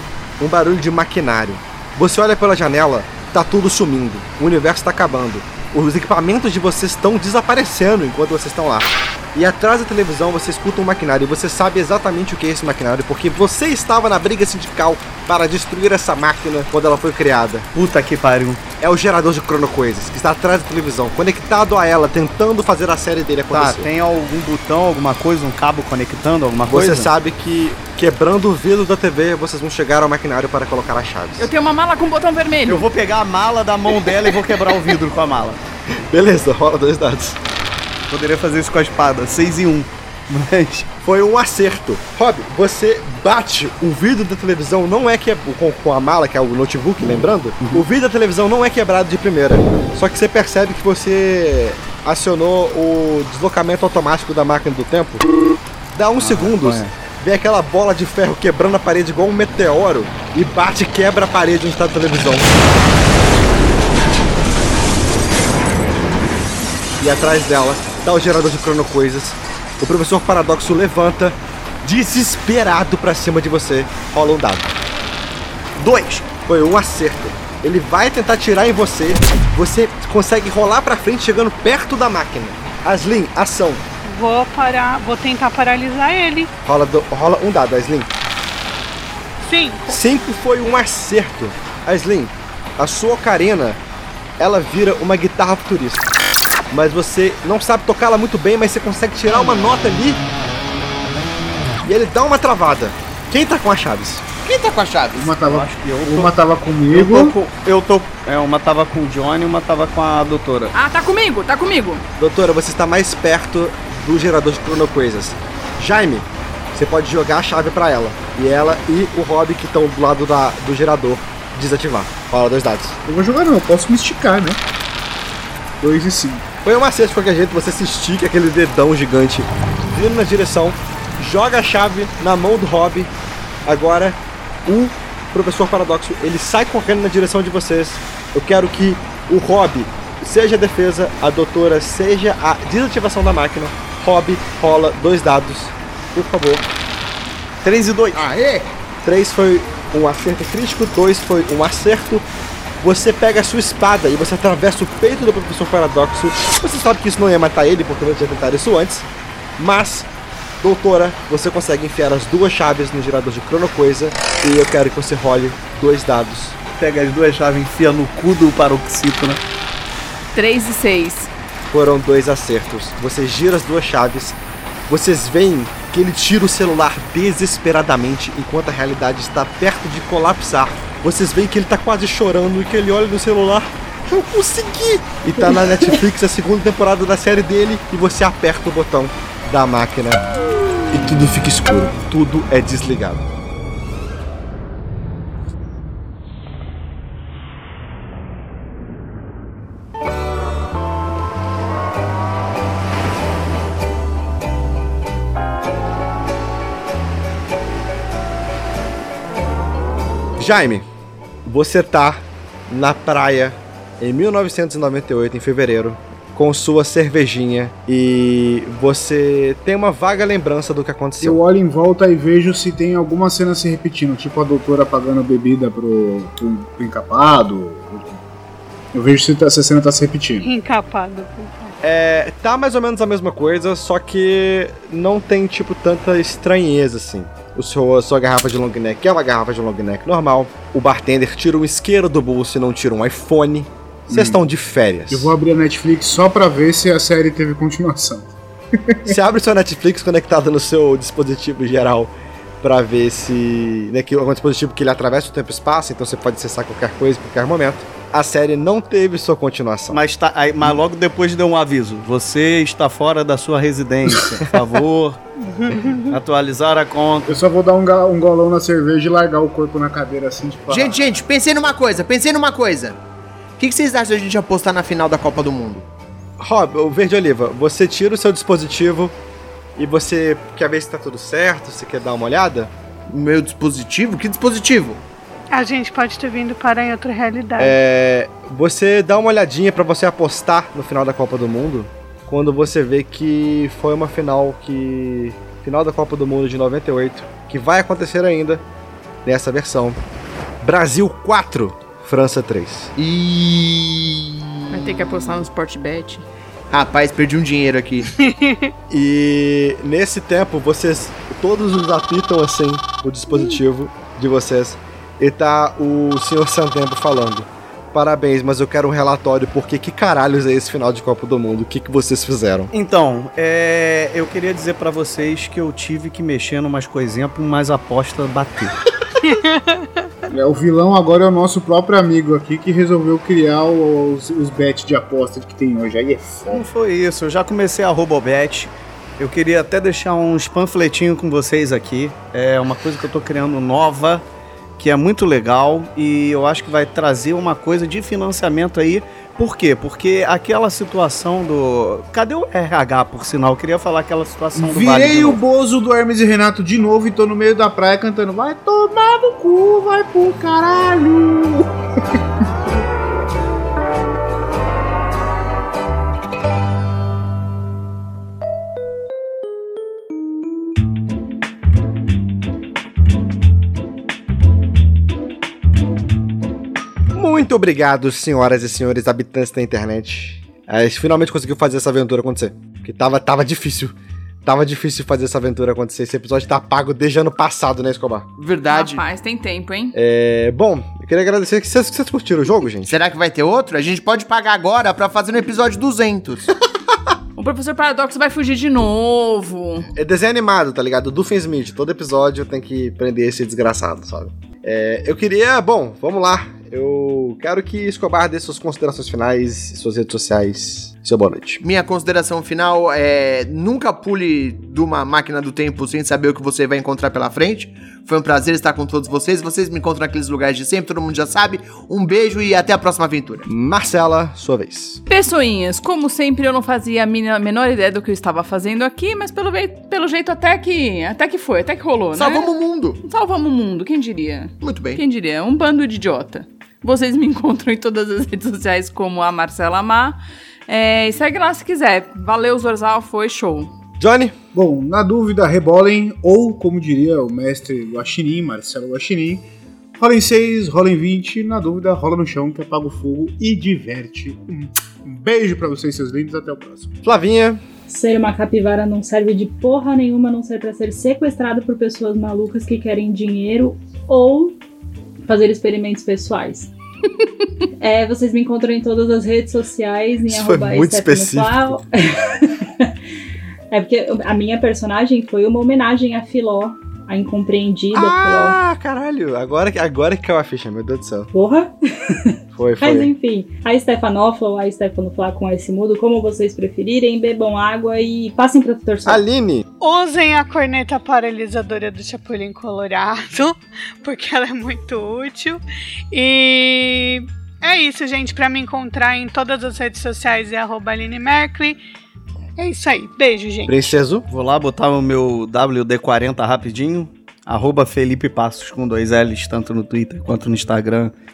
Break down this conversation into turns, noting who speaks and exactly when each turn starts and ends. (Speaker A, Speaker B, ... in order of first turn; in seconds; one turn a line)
Speaker A: 0.4-17.7
Speaker B: 17.7-18.6
Speaker A: 18.8-23.9
Speaker B: 23.5-27.1
Speaker A: 26.7-31.5
Speaker C: 31.4-32.8
Speaker B: 32.7-35.6
Speaker A: 36.1-37.4
Speaker B: 38.1-40.9
Speaker A: 41.0-55.2
Speaker A: 55.9-62.5
Speaker B: 56.2-56.9
Speaker A: 67.0-74.8
Speaker B: 75.8-76.3
Speaker A: 76.5-83.8
Speaker D: 84.1-86.5
Speaker A: 86.7-88.1
Speaker D: 89.4-90.0
Speaker A: 89.9-93.8
Speaker A: 94.4-96.1
Speaker A: 96.7-100.2
Speaker A: 101.8-104.2
Speaker E: 104.4-105.3
Speaker F: 105.2-107.3
Speaker B: 105.4-106.4
Speaker B: 106.9-110.7
Speaker C: 110.7-112.0
Speaker A: 112.2-123.0
Speaker F: 123.1-124.6
Speaker F: 125.8-126.5
Speaker A: 126.6-133.1
Speaker A: 133.7-146.7
Speaker B: 147.6-148.2
Speaker E: 148.1-148.7
Speaker A: 149.0-152.2
Speaker A: 152.8-159.1
Speaker A: 159.6-160.1
Speaker A: 160.6-166.6
Speaker B: 166.8-169.4
Speaker C: 170.3-171.3
Speaker A: 171.7-174.4
Speaker A: 174.9-190.3
Speaker A: 190.9-193.2
Speaker A: 210.4-210.8
Speaker A: 211.4-221.4
Speaker F: 221.2-228.2
Speaker F: 228.9-230.5
Speaker D: 230.4-231.8
Speaker A: 231.8-245.3
Speaker F: 244.1-244.4
Speaker F: 245.1-249.1
Speaker A: 249.1-260.0
Speaker B: 259.9-265.2
Speaker D: 265.5-266.1
Speaker B: 266.1-267.4
Speaker F: 267.3-271.1
Speaker E: 270.7-273.0
Speaker E: 273.6-275.9
Speaker A: 276.4-279.2
Speaker A: 279.8-282.7
Speaker E: 283.1-285.0
Speaker D: 285.5-287.8
Speaker A: 287.6-298.6
Speaker A: 299.2-300.0
Speaker A: 300.6-302.9
Speaker E: 303.0-304.6
Speaker C: 304.7-306.3
Speaker E: 306.7-308.1
Speaker D: 308.2-308.7
Speaker A: 308.9-322.7
Speaker B: 322.7-328.7
Speaker D: 329.2-329.9
Speaker F: 330.3-336.7
Speaker B: 336.5-344.2
Speaker B: 344.8-355.4
Speaker F: 354.6-362.2
Speaker A: 377.1-388.3
Speaker E: 388.4-389.1
Speaker C: 388.7-390.0
Speaker A: 389.9-393.0
Speaker E: 392.9-396.5
Speaker C: 397.4-399.9
Speaker A: 399.9-411.6
Speaker E: 411.6-423.5
Speaker A: 423.5-425.0
Speaker C: 425.1-443.7
Speaker E: 432.1-433.0
Speaker E: 434.6-435.0
Speaker A: 444.0-444.4
Speaker F: 444.5-449.4
Speaker F: 450.0-456.9
Speaker A: 457.0-457.6
Speaker G: 457.9-464.6
Speaker G: 465.3-466.7
Speaker G: 467.8-472.9
Speaker A: 470.3-471.8
Speaker G: 473.7-478.6
Speaker A: 477.9-481.3
Speaker G: 481.3-489.2
Speaker A: 482.6-483.1
Speaker A: 489.1-489.6
Speaker D: 489.8-501.8
Speaker D: 502.6-504.0
Speaker A: 503.7-504.2
Speaker B: 504.3-511.1